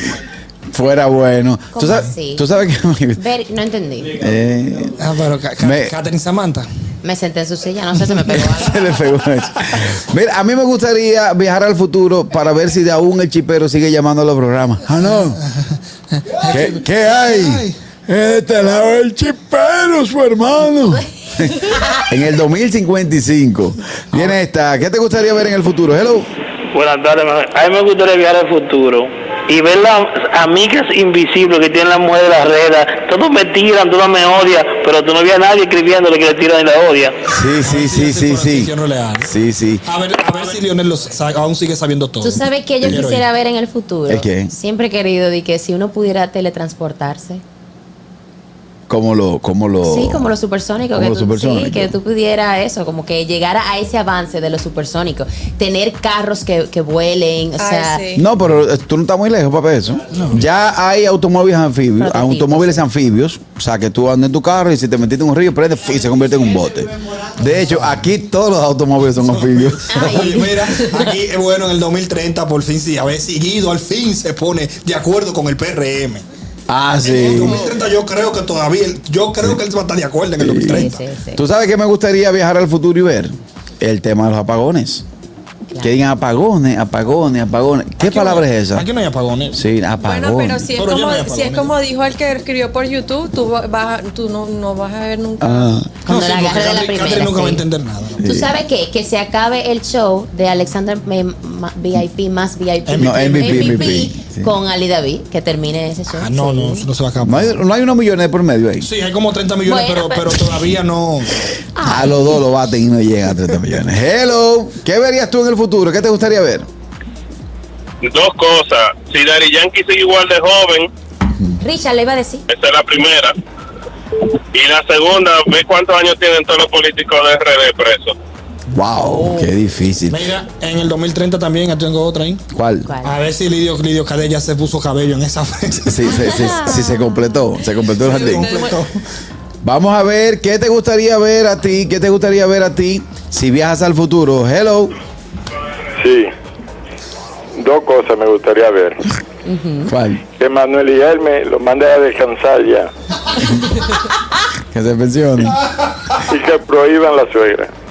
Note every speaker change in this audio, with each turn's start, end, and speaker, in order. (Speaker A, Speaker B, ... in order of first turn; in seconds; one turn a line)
Speaker A: 0.7-3.2
Speaker B: 1.7-2.4
Speaker B: 3.2-4.1
Speaker A: 4.1-5.0
Speaker C: 5.0-6.7
Speaker A: 5.6-5.9
Speaker B: 7.0-8.8
Speaker A: 8.6-15.4
Speaker C: 16.1-17.8
Speaker A: 16.5-26.3
Speaker D: 26.7-37.1
Speaker A: 37.3-39.8
Speaker C: 37.4-39.3
Speaker C: 39.8-43.2
Speaker B: 42.2-47.4
Speaker A: 44.1-44.5
Speaker A: 48.9-50.3
Speaker B: 49.8-58.0
Speaker A: 50.9-51.9
Speaker E: 57.6-58.2
Speaker A: 58.1-70.3
Speaker C: 60.1-60.4
Speaker B: 62.0-62.8
Speaker C: 69.4-76.2
Speaker B: 69.9-70.5
Speaker A: 76.7-77.7
Speaker C: 77.0-81.0
Speaker A: 80.4-85.0
Speaker B: 80.7-81.4
Speaker B: 85.7-85.9
Speaker A: 85.8-88.8
Speaker C: 88.0-89.6
Speaker A: 89.5-90.7
Speaker E: 90.0-95.7
Speaker C: 90.7-91.8
Speaker A: 95.4-96.0
Speaker C: 96.0-98.2
Speaker B: 96.0-97.6
Speaker A: 98.2-98.5
Speaker B: 98.2-106.9
Speaker C: 102.8-104.0
Speaker A: 103.0-104.5
Speaker C: 106.1-107.6
Speaker A: 107.2-108.9
Speaker C: 108.8-111.5
Speaker B: 109.7-110.4
Speaker B: 111.8-112.3
Speaker A: 111.8-116.7
Speaker F: 118.0-120.9
Speaker B: 121.6-122.4
Speaker F: 122.5-123.3
Speaker F: 124.5-128.1
Speaker A: 128.7-130.2
Speaker B: 129.0-129.5
Speaker C: 130.1-132.4
Speaker A: 132.5-132.9
Speaker B: 132.8-133.2
Speaker C: 133.0-136.5
Speaker A: 135.9-138.6
Speaker B: 136.1-137.4
Speaker E: 138.0-138.8
Speaker C: 138.3-138.9
Speaker A: 139.6-144.9
Speaker G: 146.0-146.3
Speaker G: 147.6-149.0
Speaker B: 149.4-149.9
Speaker A: 149.9-150.2
Speaker G: 150.3-152.9
Speaker A: 154.7-155.6
Speaker G: 156.3-157.7